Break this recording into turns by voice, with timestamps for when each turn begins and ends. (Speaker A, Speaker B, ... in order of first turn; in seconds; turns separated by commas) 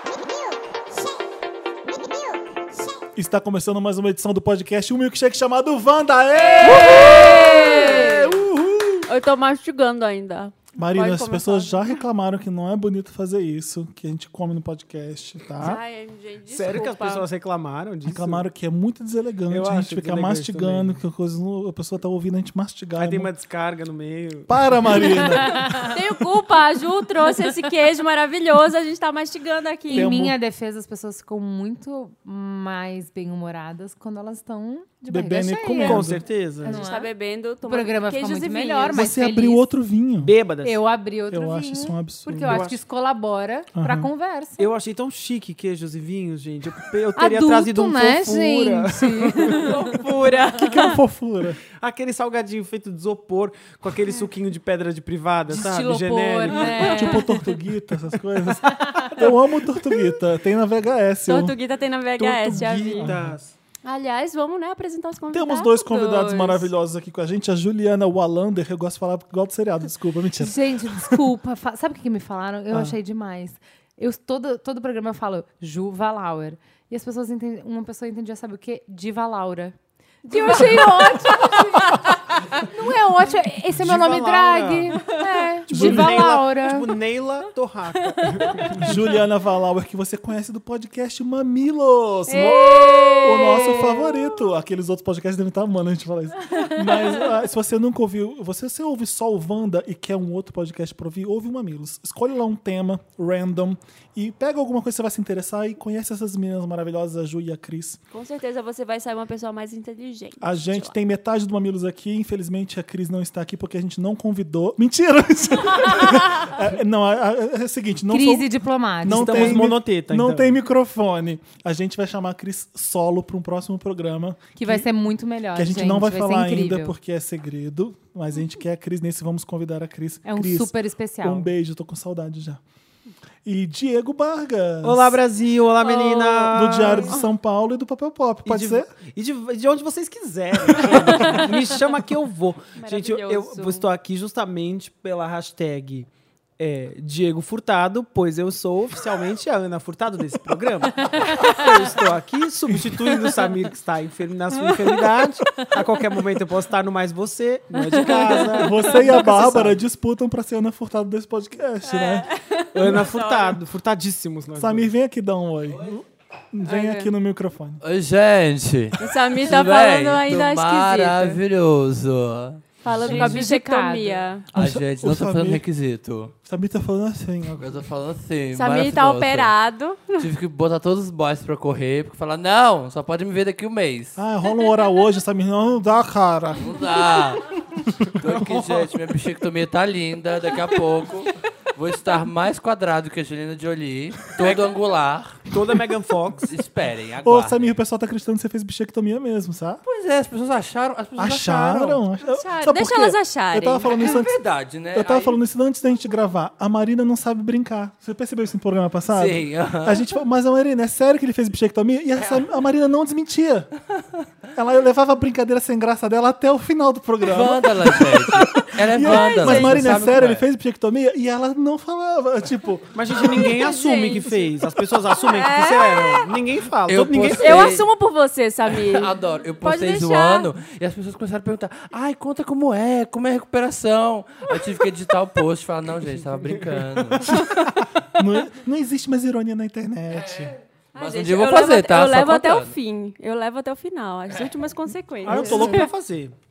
Speaker A: 3.1-9.1, Speaker B: 6.4-8.4, Speaker B: 9.1-12.0, Speaker A: 10.8-15.8, Speaker B: 15.6-17.3, Speaker C: 16.5-18.4, Speaker A: 18.1-23.3, Speaker C: 19.5-21.0, Speaker C: 23.0-25.1, Speaker A: 24.5-25.7, Speaker D: 25.6-25.9, Speaker B: 25.8-30.1, Speaker A: 29.9-30.4, Speaker D: 29.9-36.1, Speaker A: 35.1-36.2, Speaker C: 35.8-36.8, Speaker D: 36.6-37.1, Speaker B: 36.7-39.0, Speaker D: 37.7-39.6, Speaker A: 38.9-40.3, Speaker C: 40.2-40.8, Speaker D: 40.6-44.6, Speaker A: 41.3-42.7, Speaker C: 42.4-42.8, Speaker A: 43.7-44.1, Speaker C: 44.6-50.3, Speaker D: 47.2-50.0, Speaker B: 49.5-50.9, Speaker A: 50.5-51.6, Speaker C: 51.8-57.1, Speaker D: 55.5-57.4, Speaker A: 56.6-61.5, Speaker B: 61.3-63.1, Speaker A: 62.2-63.4, Speaker C: 63.0-63.5, Speaker B: 63.8-66.7, Speaker A: 65.3-71.2, Speaker D: 70.4-79.8, Speaker A: 72.7-73.0, Speaker B: 80.2-82.2, Speaker D: 80.3-81.8, Speaker D: 82.6-86.9, Speaker C: 83.8-85.1, Speaker C: 85.7-89.0, Speaker A: 85.7-86.4, Speaker A: 88.8-108.0, Speaker B: 92.3-94.2, Speaker D: 92.3-93.2, Speaker B: 108.1-110.9, Speaker A: 110.4-124.9, Speaker D: 118.1-119.6, Speaker C: 119.1-120.5, Speaker D: 124.6-127.0, Speaker A: 125.5-132.6, Speaker D: 130.3-131.5, Speaker A: 133.4-135.2, Speaker C: 134.8-137.2, Speaker B: 135.8-137.2, Speaker A: 136.4-138.9, Speaker C: 138.5-146.1, Speaker A: 140.8-141.4, Speaker B: 142.8-143.9, Speaker C: 146.6-159.8, Speaker D: 157.9-158.6, Speaker A: 158.6-162.3, Speaker B: 161.8-163.6, Speaker C: 162.7-164.9, Speaker A: 164.6-167.8, Speaker B: 166.6-167.1, Speaker E: 167.8-172.6, Speaker B: 169.0-171.4, Speaker B: 172.8-174.5, Speaker D: 172.9-174.2, Speaker A: 174.5-175.6, Speaker E: 174.5-176.3, Speaker A: 176.4-177.8, Speaker E: 177.6-179.5, Speaker B: 178.5-180.3, Speaker E: 180.1-184.2, Speaker A: 184.2-186.8, Speaker E: 186.6-187.6, Speaker E: 188.2-195.5, Speaker C: 188.2-188.9, Speaker C: 194.4-194.7, Speaker C: 195.5-196.5, Speaker E: 196.5-197.7, Speaker A: 197.2-199.8, Speaker E: 199.8-202.0, Speaker A: 201.2-204.4, Speaker B: 202.2-204.1, Speaker E: 203.8-205.4, Speaker A: 204.9-213.7, Speaker E: 209.1-210.0, Speaker A: 214.6-223.6, Speaker E: 217.3-220.4, Speaker B: 219.0-220.0, Speaker C: 222.9-227.8, Speaker B: 223.4-224.5, Speaker B: 225.2-226.4, Speaker E: 226.9-227.9, Speaker B: 227.4-230.5, Speaker E: 228.7-237.5, Speaker C: 236.1-237.5, Speaker A: 238.2-240.5, Speaker E: 240.3-242.7, Speaker B: 240.9-245.9, Speaker C: 245.2-246.3, Speaker A: 245.3-245.8